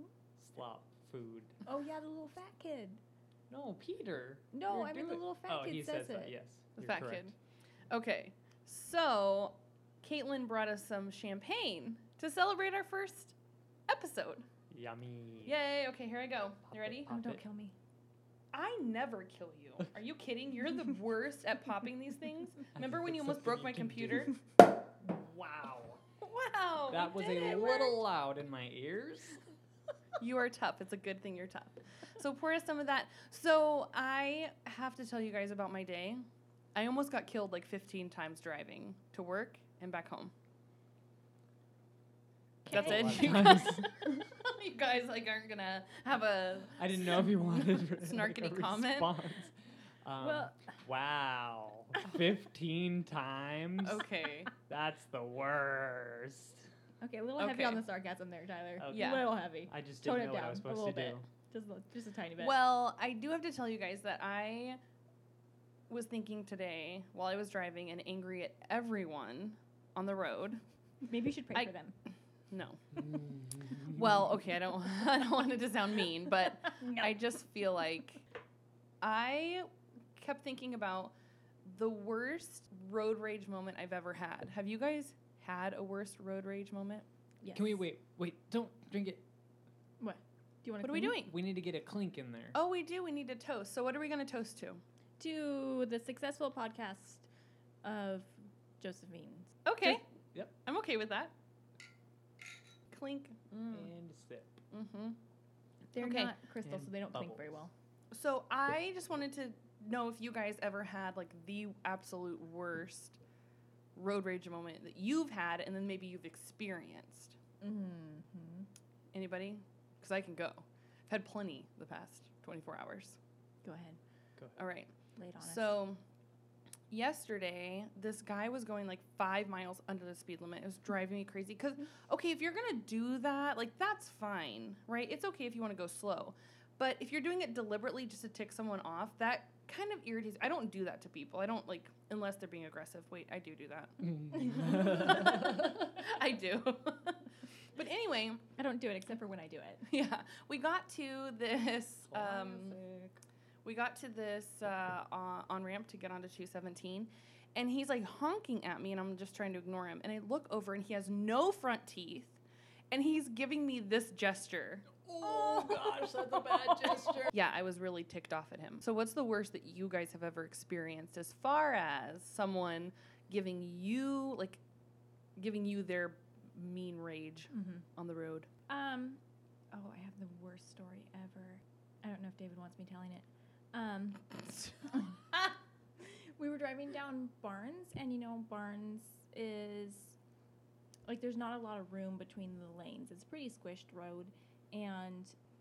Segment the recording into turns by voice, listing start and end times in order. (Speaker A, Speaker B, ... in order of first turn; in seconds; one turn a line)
Speaker A: 0.4-1.5
Speaker B: 1.6-3.0
Speaker A: 3.5-7.3
Speaker B: 4.5-6.3
Speaker C: 6.8-7.3
Speaker C: 7.9-13.3
Speaker C: 13.9-14.4
Speaker A: 14.7-15.6
Speaker C: 15.4-17.1
Speaker A: 16.7-17.4
Speaker B: 17.1-17.7
Speaker C: 18.5-24.3
Speaker A: 22.7-24.4
Speaker A: 25.0-26.0
Speaker C: 26.2-28.0
Speaker A: 26.9-29.4
Speaker C: 30.2-36.2
Speaker C: 36.7-40.3
Speaker B: 42.6-43.8
Speaker C: 42.7-49.2
Speaker A: 42.7-43.9
Speaker A: 46.8-54.0
Speaker B: 50.2-50.5
Speaker C: 53.8-54.5
Speaker A: 54.6-56.7
Speaker B: 57.0-62.5
Speaker C: 57.4-57.8
Speaker A: 58.8-61.2
Speaker C: 58.9-59.3
Speaker C: 62.4-64.8
Speaker C: 65.9-70.6
Speaker B: 71.0-71.9
Speaker C: 72.5-73.0
Speaker A: 73.1-74.0
Speaker C: 73.8-78.2
Speaker B: 76.7-77.1
Speaker C: 79.0-87.0
Speaker B: 87.4-87.8
Speaker A: 87.5-89.2
Speaker B: 90.0-91.2
Speaker C: 90.8-91.3
Speaker A: 91.2-92.5
Speaker C: 92.5-94.8
Speaker B: 95.2-97.2
Speaker B: 97.8-100.0
Speaker C: 99.7-100.0
Speaker C: 100.6-101.3
Speaker C: 102.9-103.9
Speaker A: 103.7-104.6
Speaker C: 104.7-105.2
Speaker B: 105.9-107.7
Speaker C: 106.0-106.3
Speaker A: 106.6-107.4
Speaker C: 108.1-113.2
Speaker C: 114.0-117.3
Speaker B: 117.6-118.7
Speaker C: 119.1-123.2
Speaker B: 123.6-124.0
Speaker C: 124.6-126.0
Speaker B: 125.2-125.8
Speaker C: 126.9-147.2
Speaker A: 144.3-145.7
Speaker B: 144.3-145.4
Speaker C: 147.7-148.4
Speaker B: 148.6-149.9
Speaker C: 149.9-152.8
Speaker A: 152.1-153.2
Speaker C: 153.6-162.4
Speaker C: 162.9-165.0
Speaker A: 165.0-167.3
Speaker C: 167.3-174.6
Speaker C: 175.4-178.5
Speaker B: 177.5-177.8
Speaker B: 178.7-179.2
Speaker B: 179.7-190.2
Speaker B: 191.1-195.3